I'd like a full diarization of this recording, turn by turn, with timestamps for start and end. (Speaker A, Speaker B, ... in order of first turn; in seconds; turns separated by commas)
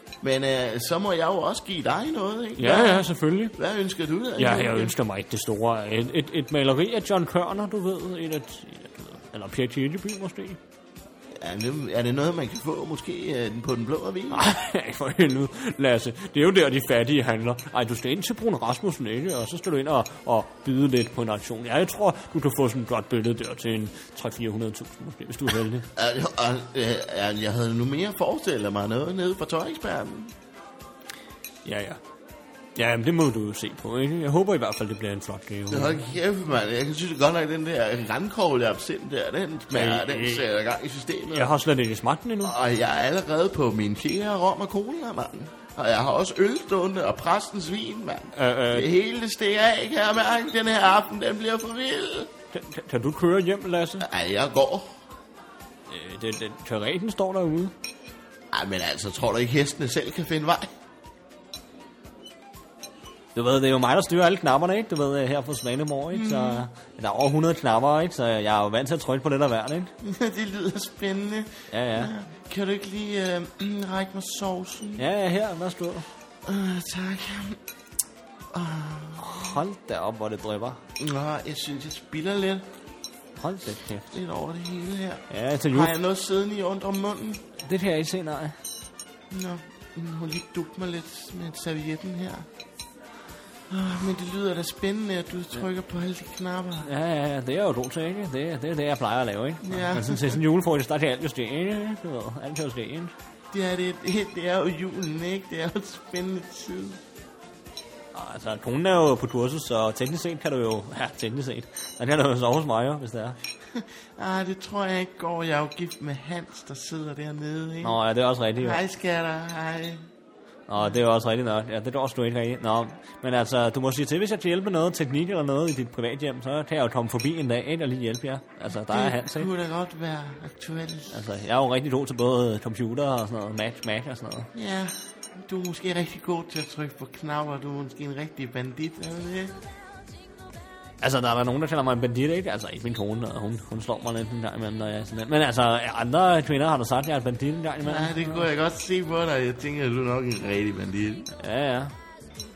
Speaker A: 0.2-4.9, Speaker B: 2.6-3.5, Speaker B: 4.4-10.6, Speaker A: 11.4-14.4, Speaker B: 14.3-25.9, Speaker A: 25.9-30.3, Speaker B: 31.6-32.0, Speaker B: 32.7-36.0, Speaker A: 35.7-41.5, Speaker B: 39.7-40.5, Speaker B: 41.3-42.5, Speaker A: 42.4-52.3, Speaker B: 48.3-48.9, Speaker B: 52.5-54.1, Speaker A: 54.0-55.0, Speaker B: 55.9-57.7, Speaker A: 58.5-60.7, Speaker B: 63.3-69.9, Speaker A: 66.1-66.7, Speaker A: 70.0-75.0, Speaker B: 71.7-72.1, Speaker B: 75.0-76.1, Speaker A: 76.4-77.6, Speaker A: 78.5-79.5, Speaker B: 79.2-80.8, Speaker A: 81.0-82.7, Speaker B: 83.4-84.1, Speaker A: 84.1-87.4, Speaker B: 85.3-85.9, Speaker B: 87.6-88.6, Speaker A: 89.3-92.5, Speaker A: 93.7-96.9, Speaker B: 96.8-103.1, Speaker A: 99.6-100.4, Speaker A: 103.5-107.0, Speaker B: 108.1-113.4, Speaker A: 113.7-118.0, Speaker B: 117.8-118.8, Speaker A: 118.6-120.0, Speaker B: 120.7-129.5, Speaker A: 128.8-131.2, Speaker B: 131.1-134.5, Speaker A: 134.5-139.5, Speaker B: 141.0-148.5, Speaker A: 147.8-151.3, Speaker B: 151.3-151.9